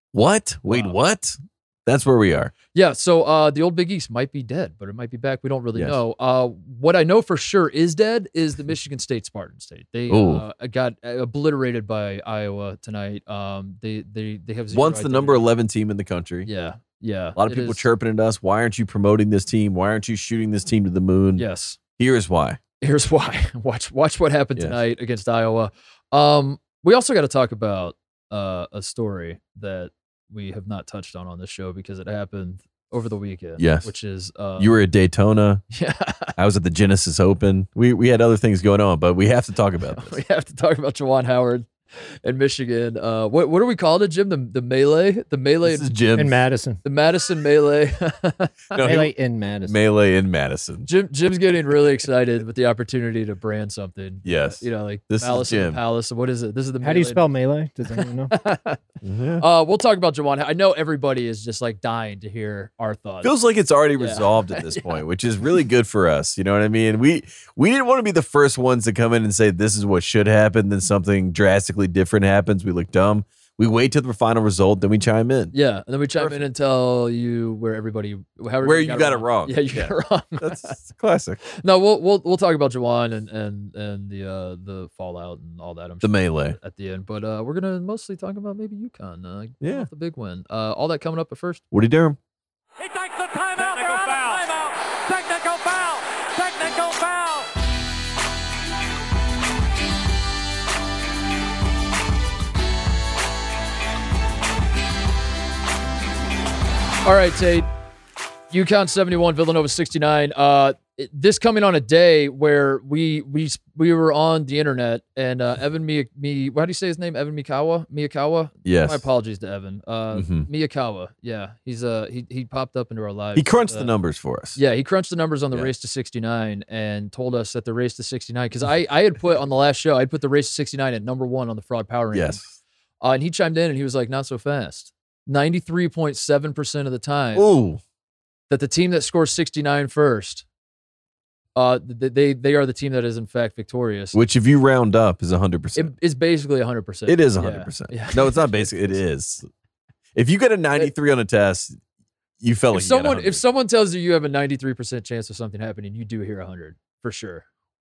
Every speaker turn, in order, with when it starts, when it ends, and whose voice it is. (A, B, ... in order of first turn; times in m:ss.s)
0:00.1-0:02.5 A
0:00.7-0:01.0 B
0:02.7-0:15.5 B
0:10.1-0:10.4 A
0:14.7-0:16.5 A
0:16.4-0:17.9 B
0:17.4-0:21.4 A
0:21.4-0:21.8 B
0:22.0-0:22.6 A
0:22.8-0:34.7 B
0:33.6-0:33.9 A
0:34.6-0:35.6 A
0:35.7-0:36.3 B
0:36.4-0:40.2 A
0:39.9-0:45.9 B
0:45.6-0:46.4 A
0:46.2-0:46.8 C
0:46.8-0:48.7 B
0:48.7-0:49.1 A
0:48.8-0:49.8 C
0:49.7-0:50.9 A
0:50.8-0:57.3 B
0:54.2-0:55.8 A
0:56.8-0:58.4 C
0:57.9-0:58.8 B
0:59.0-0:59.4 A
0:59.4-1:03.3 B
1:03.2-1:15.5 A
1:04.0-1:05.0 B
1:15.5-1:20.8 B
1:18.6-1:21.4 A
1:21.6-1:31.6 B
1:26.0-1:26.6 A
1:29.6-1:29.9 A
1:31.7-1:32.2 A
1:32.8-1:37.5 D
1:47.0-1:47.7 B
1:48.5-2:03.9 B
1:58.6-1:59.0 A
2:00.1-2:00.5 A
2:03.4-2:04.6 A
2:04.6-2:12.4 B
2:12.1-2:12.6 A
2:13.0-2:17.5 B
2:17.3-2:17.8 A
2:18.5-2:20.4 B
2:21.6-2:24.2 B
2:24.1-2:25.9 A
2:25.8-2:29.0 B
2:27.1-2:29.5 A
2:30.2-2:31.8 A
2:32.4-2:33.4 A
2:32.7-2:37.5 B